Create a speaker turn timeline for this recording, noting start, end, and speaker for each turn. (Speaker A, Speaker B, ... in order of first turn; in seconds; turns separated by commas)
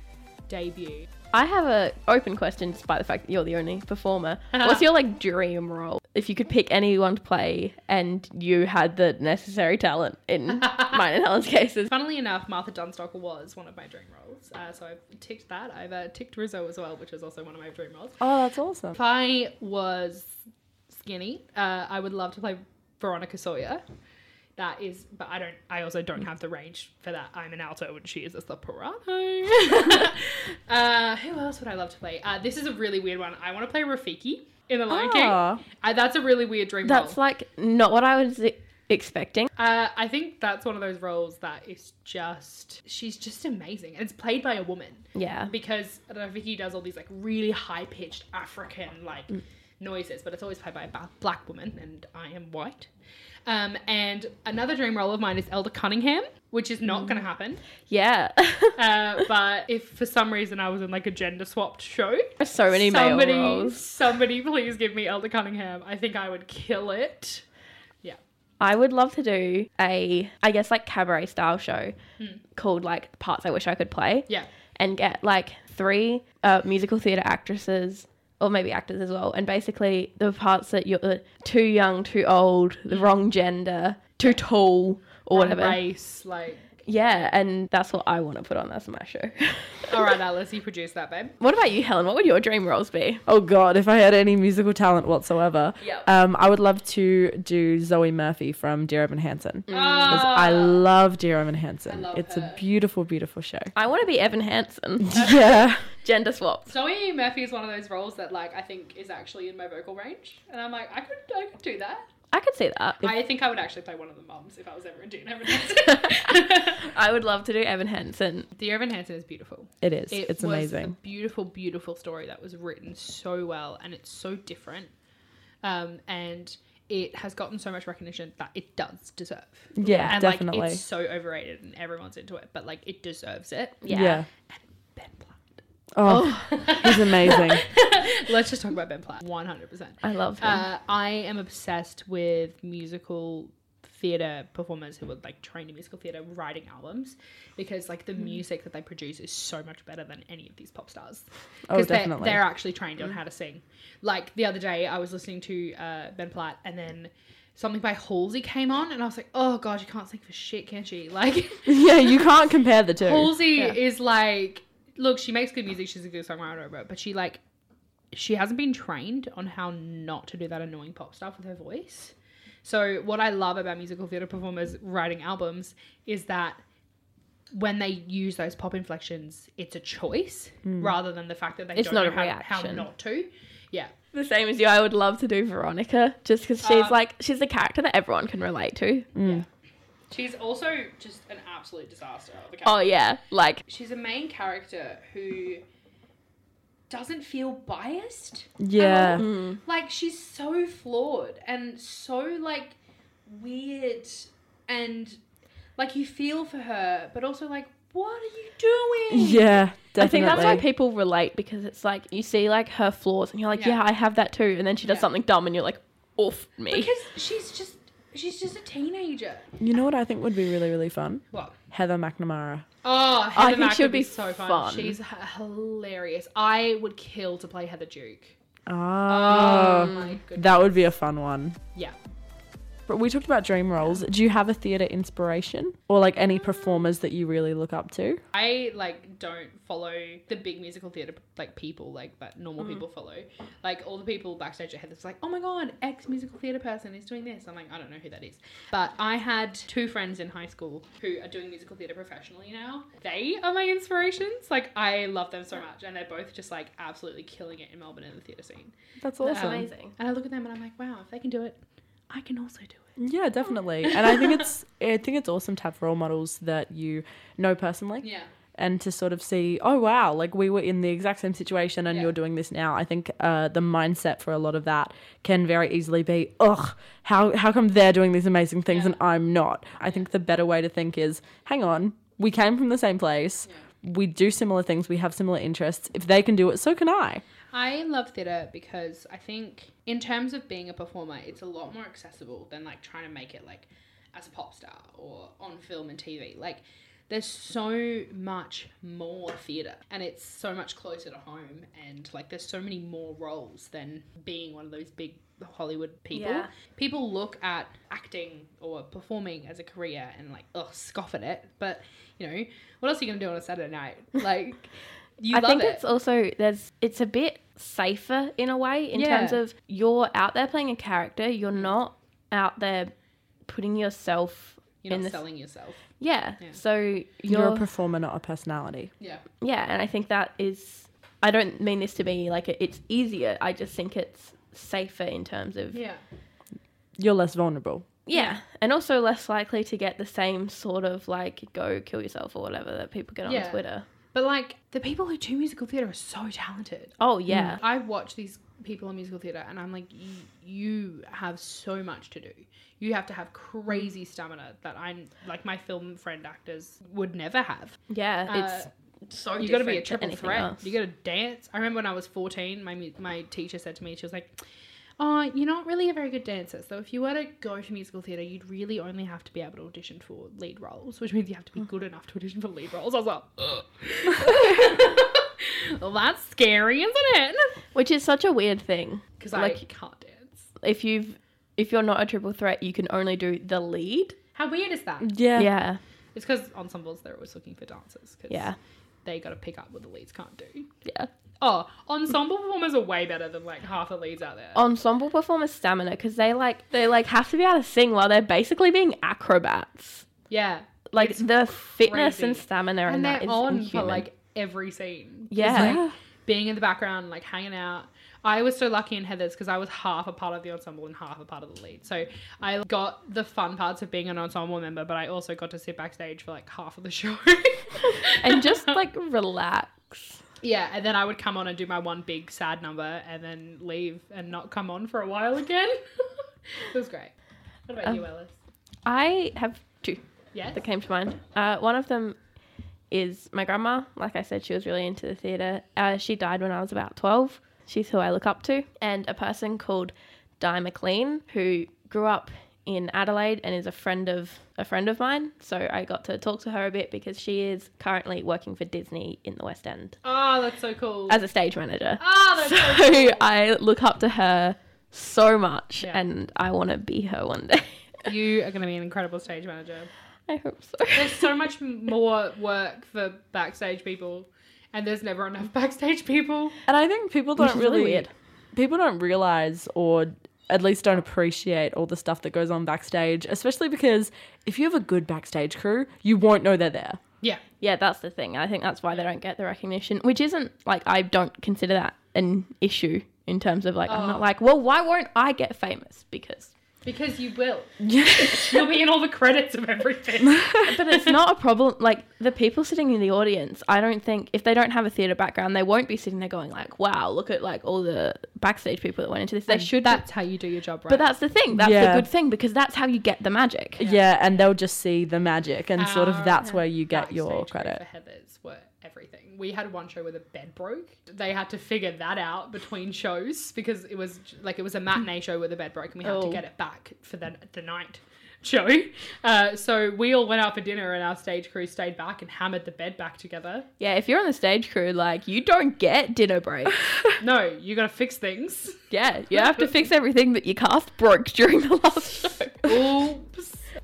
Speaker A: 0.5-1.1, Speaker B: 1.3-11.9, Speaker A: 4.5-4.8, Speaker A: 11.9-18.2, Speaker C: 18.2-19.0, Speaker A: 18.9-20.4, Speaker A: 20.9-23.8, Speaker A: 24.6-37.2, Speaker C: 34.9-35.6, Speaker B: 36.8-39.5, Speaker A: 39.6-52.9, Speaker B: 45.1-45.5, Speaker A: 53.5-57.6, Speaker B: 57.9-58.8, Speaker A: 58.8-67.4, Speaker B: 62.4-63.8, Speaker B: 68.6-72.0, Speaker B: 72.5-85.8, Speaker A: 85.3-86.7, Speaker B: 86.8-90.1, Speaker A: 89.9-91.4, Speaker B: 91.4-93.2, Speaker C: 93.2-103.7, Speaker B: 99.7-100.2, Speaker A: 99.7-100.8, Speaker A: 101.9-102.6, Speaker B: 103.7-106.7, Speaker C: 105.0-105.9, Speaker A: 106.7-112.0, Speaker B: 112.3-113.0, Speaker A: 113.0-116.9, Speaker B: 115.7-118.5, Speaker A: 118.5-124.9, Speaker C: 119.8-120.9, Speaker A: 125.6-133.9, Speaker C: 129.8-130.8, Speaker B: 129.8-130.2, Speaker B: 133.8-134.2, Speaker C: 133.9-134.3, Speaker A: 134.5-135.6, Speaker C: 136.0-137.7, Speaker B: 136.1-136.8, Speaker A: 136.5-162.2, Speaker B: 140.0-140.6, Speaker C: 151.7-152.4, Speaker C: 161.7-163.4, Speaker A: 163.0-167.4, Speaker A: 168.1-176.6, Speaker A: 177.5-183.9, Speaker C: 180.7-180.9, Speaker B: 181.8-182.9, Speaker B: 184.1-189.1, Speaker A: 186.6-187.0, Speaker C: 189.1-189.4, Speaker A: 190.1-192.8, Speaker B: 192.6-193.6, Speaker A: 193.7-195.6, Speaker A: 196.9-205.2, Speaker C: 198.6-199.2, Speaker B: 199.2-199.6, Speaker A: 205.8-210.6, Speaker C: 209.1-210.7, Speaker B: 210.0-216.9, Speaker A: 213.5-213.8, Speaker A: 214.8-215.1, Speaker A: 216.7-219.5, Speaker C: 219.6-222.6, Speaker A: 222.8-228.3, Speaker B: 223.3-224.9, Speaker C: 228.7-231.6, Speaker A: 229.1-230.9, Speaker C: 232.9-238.2, Speaker A: 238.3-258.7, Speaker C: 259.0-259.7, Speaker B: 259.2-259.9, Speaker A: 259.3-262.9, Speaker C: 263.0-268.1, Speaker A: 263.8-264.4, Speaker A: 268.0-268.3, Speaker C: 268.6-287.2, Speaker A: 278.7-279.0, Speaker A: 287.5-315.8, Speaker B: 306.1-306.5, Speaker B: 315.3-322.9, Speaker A: 318.9-319.4, Speaker B: 323.5-325.2, Speaker A: 324.8-325.8, Speaker B: 326.0-327.6, Speaker C: 327.3-328.9, Speaker B: 329.4-335.8, Speaker A: 335.7-336.0, Speaker C: 337.0-337.9, Speaker B: 338.1-343.8, Speaker A: 343.2-343.6, Speaker A: 344.1-347.0, Speaker B: 347.0-347.6, Speaker C: 347.3-347.6, Speaker A: 347.5-358.7, Speaker B: 357.9-360.6, Speaker A: 359.4-364.3, Speaker A: 365.0-377.5, Speaker B: 377.7-379.6, Speaker A: 379.2-380.5, Speaker B: 380.6-384.2, Speaker A: 384.3-385.1, Speaker C: 385.0-385.5, Speaker B: 385.4-385.8, Speaker A: 386.1-388.5, Speaker B: 388.3-388.6, Speaker A: 389.0-390.7, Speaker B: 390.8-391.1, Speaker A: 391.4-394.6, Speaker B: 394.5-400.0, Speaker A: 400.3-418.8, Speaker B: 400.9-404.1, Speaker B: 405.3-405.9, Speaker C: 405.4-405.9, Speaker B: 417.9-420.2, Speaker A: 420.4-427.1, Speaker A: 427.7-428.3, Speaker B: 428.8-432.2, Speaker A: 430.3-430.6, Speaker B: 432.9-450.0, Speaker A: 450.0-451.2, Speaker B: 451.1-457.8, Speaker A: 452.0-453.2, Speaker A: 458.1-459.9, Speaker B: 460.3-461.3, Speaker A: 460.9-466.6, Speaker C: 466.7-477.0, Speaker B: 467.4-468.1, Speaker B: 477.6-486.5, Speaker A: 483.9-484.3, Speaker A: 486.8-491.1, Speaker C: 487.8-488.7, Speaker C: 490.3-490.7, Speaker B: 490.6-500.0, Speaker A: 499.6-501.1, Speaker B: 500.9-503.8, Speaker C: 501.5-502.1, Speaker C: 503.8-507.8, Speaker A: 503.8-504.1, Speaker A: 505.8-523.7, Speaker B: 516.0-516.4, Speaker B: 523.8-526.8, Speaker A: 527.2-528.8, Speaker B: 528.9-532.9, Speaker A: 529.3-529.7, Speaker A: 532.6-533.7